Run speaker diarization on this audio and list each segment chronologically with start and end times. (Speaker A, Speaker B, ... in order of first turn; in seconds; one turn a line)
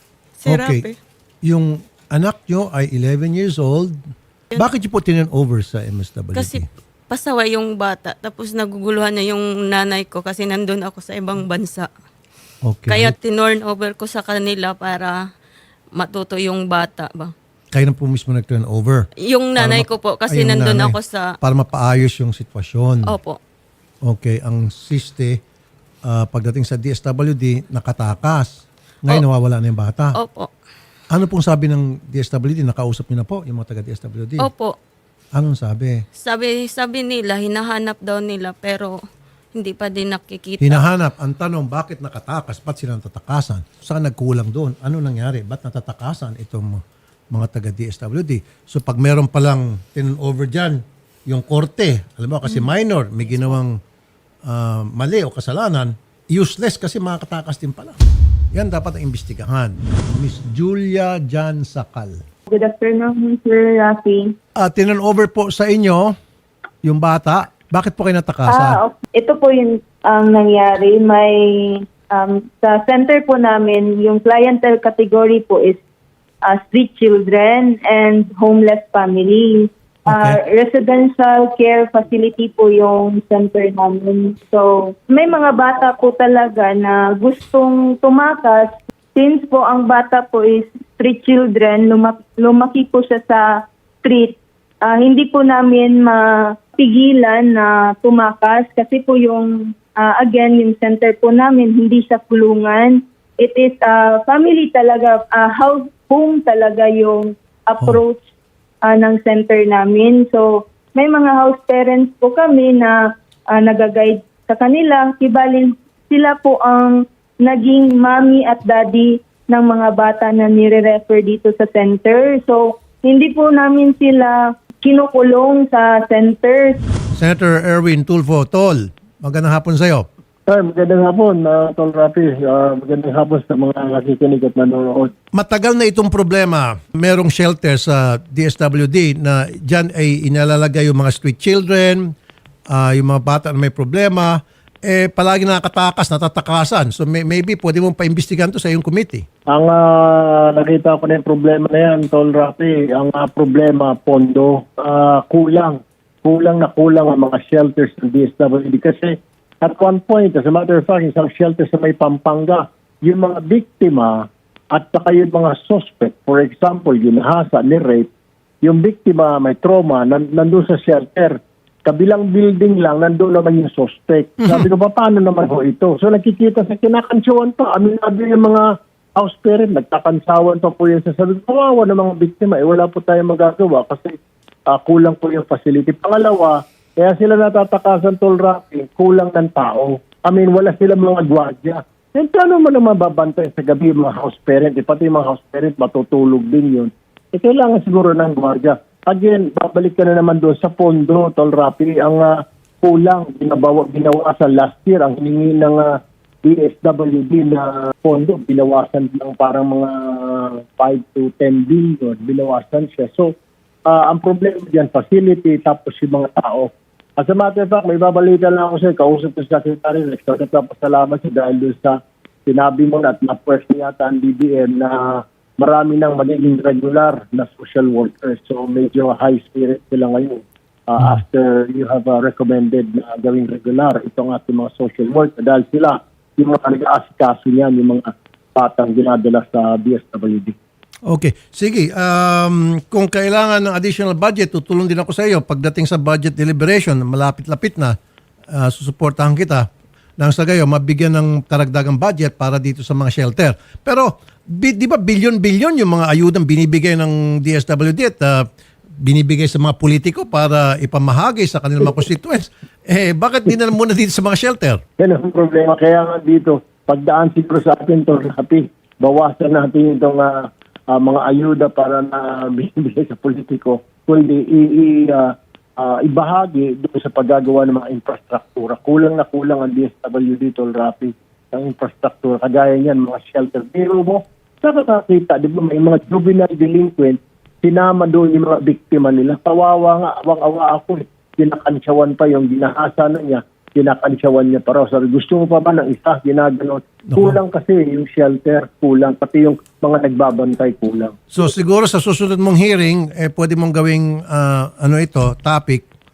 Speaker A: 0.4-0.9
Speaker B: 0.5-0.8
Speaker B: 1.4-4.0
Speaker B: 4.6-6.6
Speaker A: 6.3-11.9
Speaker B: 12.7-13.2
Speaker A: 12.9-15.2
Speaker A: 16.0-17.3
Speaker B: 17.7-19.1
Speaker A: 19.3-21.2
Speaker B: 19.6-23.1
Speaker A: 23.1-23.4
Speaker B: 24.1-25.4
Speaker B: 26.1-30.1
Speaker A: 30.2-30.5
Speaker B: 31.1-34.5
Speaker A: 34.4-34.7
Speaker B: 35.4-36.0
Speaker A: 36.2-39.0
Speaker A: 39.5-40.8
Speaker B: 40.6-46.8
Speaker B: 47.3-53.8
Speaker B: 54.5-58.0
Speaker B: 58.5-62.2
Speaker C: 62.5-64.3
Speaker B: 64.6-66.1
Speaker B: 66.8-68.8
Speaker C: 68.5-75.8
Speaker C: 76.5-93.4
Speaker B: 80.1-80.4
Speaker C: 94.0-108.2
Speaker C: 108.8-113.0
Speaker C: 113.5-126.8
Speaker B: 127.2-130.1
Speaker D: 130.5-135.1
Speaker B: 135.4-142.1
Speaker B: 142.7-149.2
Speaker D: 149.5-168.1
Speaker D: 168.6-184.2
Speaker B: 174.4-174.7
Speaker D: 184.7-213.3
Speaker D: 213.9-240.6
Speaker B: 241.1-248.0
Speaker B: 248.5-249.7
Speaker B: 250.2-258.5
Speaker B: 259.0-264.8
Speaker D: 265.0-301.3
Speaker B: 297.1-297.4
Speaker B: 301.3-305.9